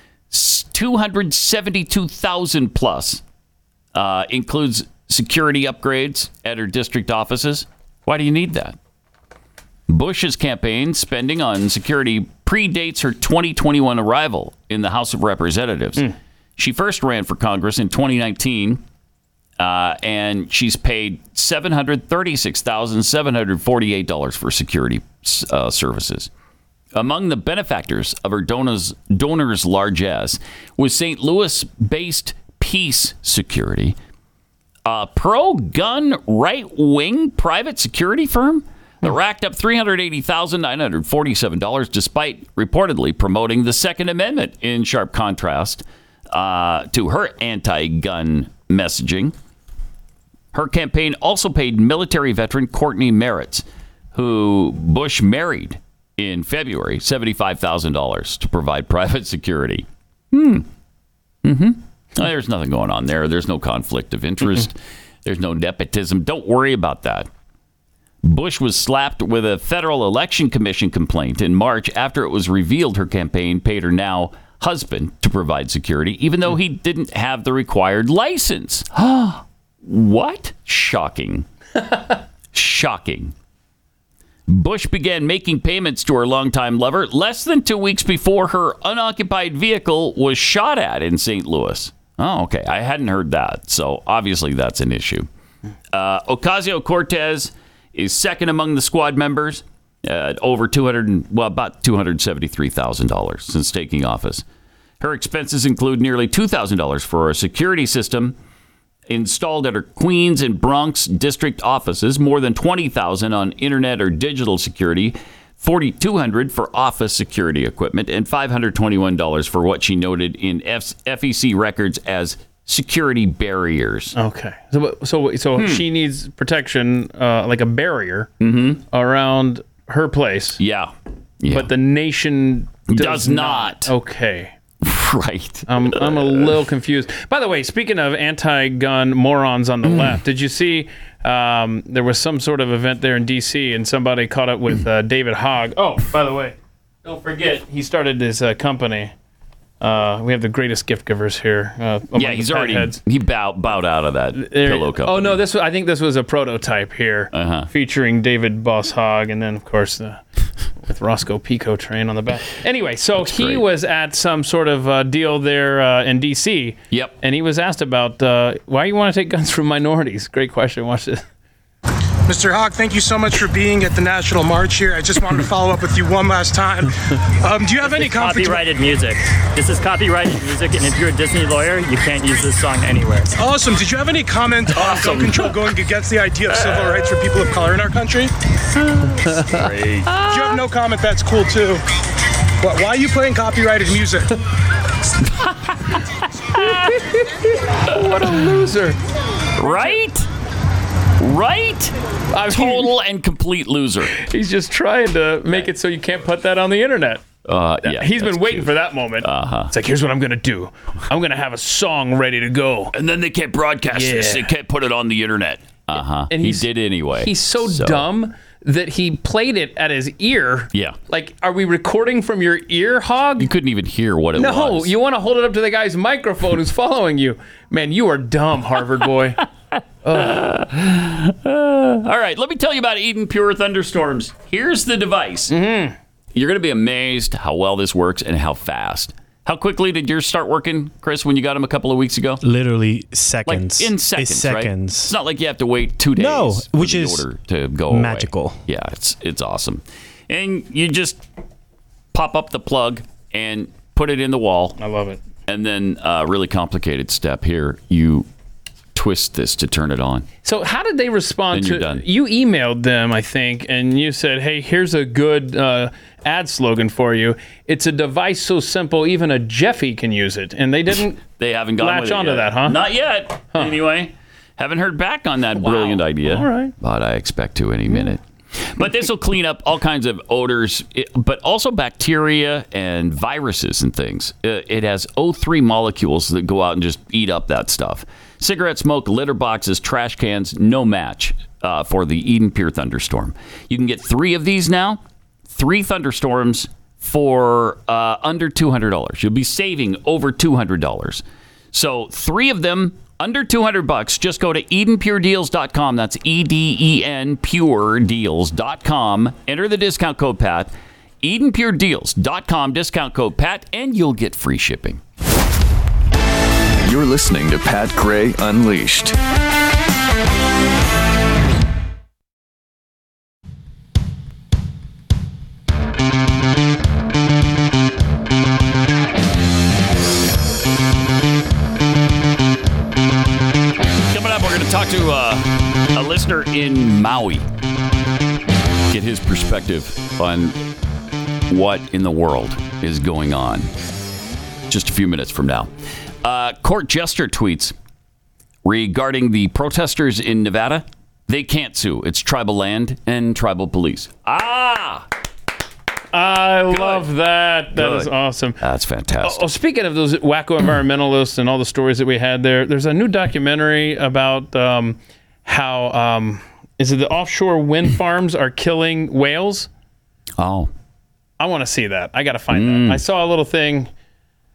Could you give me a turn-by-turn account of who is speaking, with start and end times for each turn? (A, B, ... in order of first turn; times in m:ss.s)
0:00.3-0:03.2 A
0:04.0-0:08.8 A
0:09.9-0:18.8 A
0:19.6-0:26.3 A
0:26.9-0:34.0 A
0:34.8-0:49.3 A
0:50.5-1:00.7 A
1:01.4-1:07.3 A
1:08.2-1:21.5 A
1:22.5-1:23.3 A
1:24.5-1:35.3 A
1:35.9-1:44.4 A
1:45.0-1:48.4 A
1:49.1-2:04.2 A
2:04.1-2:08.3 B
2:05.6-2:05.8 A
2:08.4-2:08.8 A
2:08.9-2:10.6 B
2:10.6-2:11.7 A
2:11.5-2:14.5 B
2:12.9-2:13.9 A
2:14.8-2:16.6 A
2:15.7-2:29.1 B
2:19.8-2:20.2 A
2:29.8-2:33.0 B
2:32.2-2:35.4 A
2:34.3-2:40.2 B
2:37.3-2:37.7 A
2:40.8-2:51.2 B
2:43.2-2:43.6 A
2:52.3-2:58.6 C
2:57.8-3:03.3 D
3:03.4-3:08.3 C
3:04.8-3:05.5 A
3:09.0-3:10.6 B
3:09.5-3:10.6 A
3:10.3-3:11.8 C
3:12.6-3:14.3 C
3:15.2-3:17.0 A
3:16.6-3:19.0 B
3:17.9-3:18.4 A
3:19.6-3:20.3 A
3:19.6-3:20.0 B
3:21.2-3:21.9 A
3:22.3-3:22.9 B
3:22.5-3:24.2 A
3:24.1-3:27.2 B
3:27.4-3:29.7 A
3:27.8-3:32.9 B
3:32.9-3:38.1 A
3:33.9-3:34.5 B
3:36.3-3:43.5 B
3:43.4-3:44.9 A
3:44.4-3:49.4 B
3:50.0-3:50.4 B
3:50.1-3:55.5 A
3:55.5-3:56.0 B
3:56.3-4:02.4 A
4:02.4-4:05.2 E
4:03.5-4:11.2 A
4:06.2-4:07.2 E
4:07.9-4:08.6 E
4:12.1-4:14.8 A
4:14.8-4:15.2 B
4:15.5-4:18.3 A
4:19.0-4:20.3 A
4:20.4-4:32.8 B
4:21.5-4:22.0 A
4:31.3-5:15.0 A
4:35.6-4:36.7 B
5:16.8-5:19.2 F
5:34.0-5:37.4 A
5:38.9-5:40.6 A
5:41.5-5:43.7 A
5:44.7-5:45.7 A
5:46.2-5:47.7 A
5:48.6-5:55.1 A
5:56.1-5:58.6 B
5:56.7-5:57.1 A
5:57.7-5:59.5 A
5:59.2-6:09.7 B
6:10.4-6:10.7 A
6:11.4-6:13.9 B
6:12.5-6:13.0 A